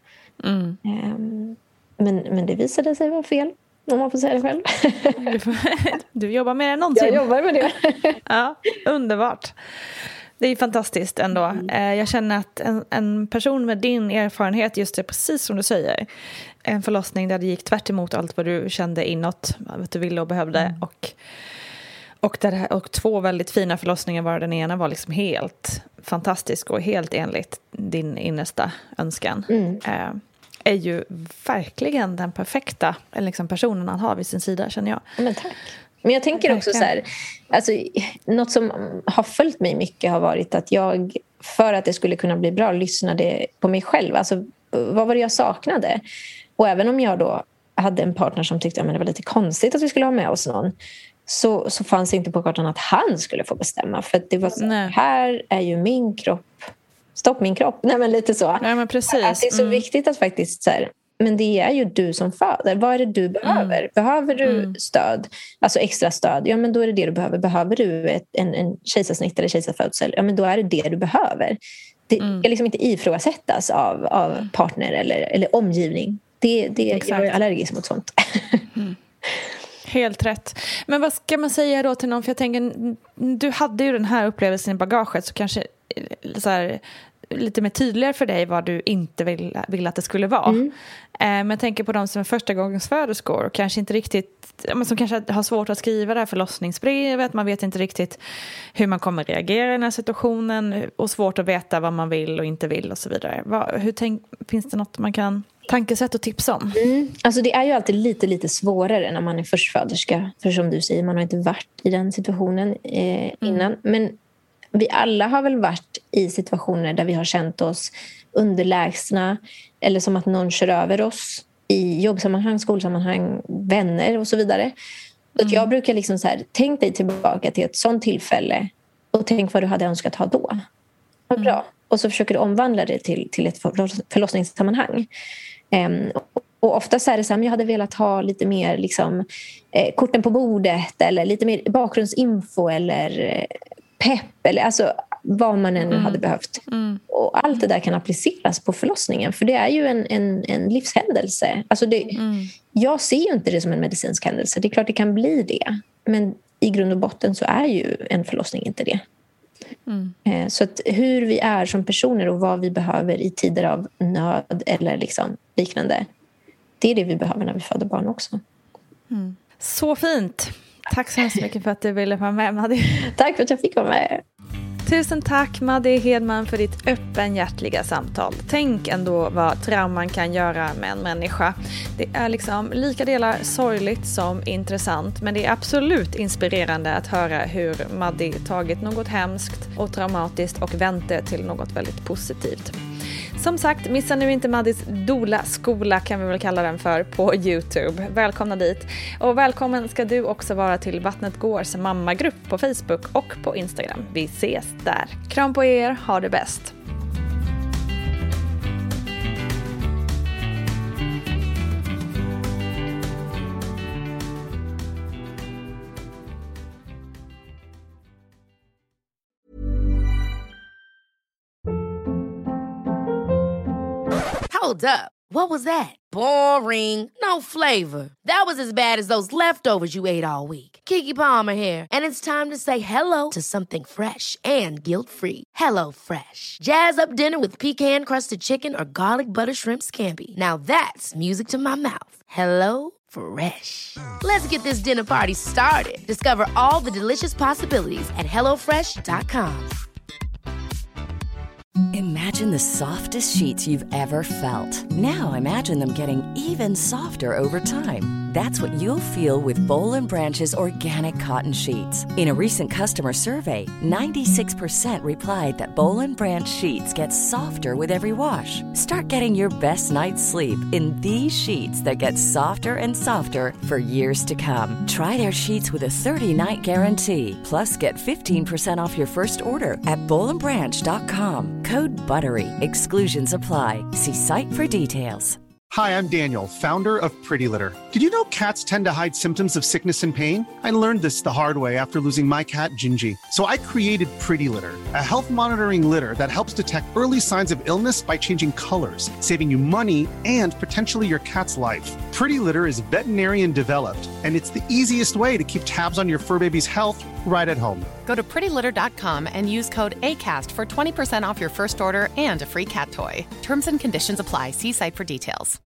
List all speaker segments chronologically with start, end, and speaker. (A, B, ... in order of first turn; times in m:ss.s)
0:00.4-0:00.8 A
0:00.8-0:05.2 B
0:05.2-0:07.2 A
0:07.0-0:08.2 B
0:08.3-0:09.5 A
0:10.4-0:16.1 A
0:11.3-0:11.7 B
0:16.6-0:21.2 A
0:20.6-0:20.8 B
0:22.2-0:35.0 A
0:29.5-0:29.8 B
0:35.2-0:46.0 B
0:36.4-0:36.9 A
0:46.6-0:50.7 B
0:51.3-1:18.6 B
0:54.6-0:55.0 A
0:58.6-0:59.8 A
1:03.4-1:03.8 A
1:04.4-1:04.8 A
1:12.2-1:12.5 A
1:16.9-1:17.3 A
1:19.9-1:30.6 A
1:30.5-1:30.7 B
1:31.2-1:38.2 A
1:38.8-1:46.8 A
1:46.8-1:54.2 B
1:53.4-1:53.7 A
1:54.7-2:04.7 B
2:05.4-2:05.7 A
2:05.4-2:10.6 B
2:11.3-2:15.1 B
2:15.7-2:32.2 B
2:25.9-2:27.0 A
2:32.2-2:32.5 A
2:32.7-2:39.0 B
2:39.9-2:40.2 A
2:40.3-2:46.1 B
2:46.8-2:48.4 B
2:49.1-2:53.1 A
2:53.0-2:54.2 B
2:54.8-3:12.8 A
3:13.4-3:26.7 A
3:44.5-4:09.8 C
4:11.9-4:45.4 D
4:45.7-5:07.9 E
5:08.0-5:15.6 F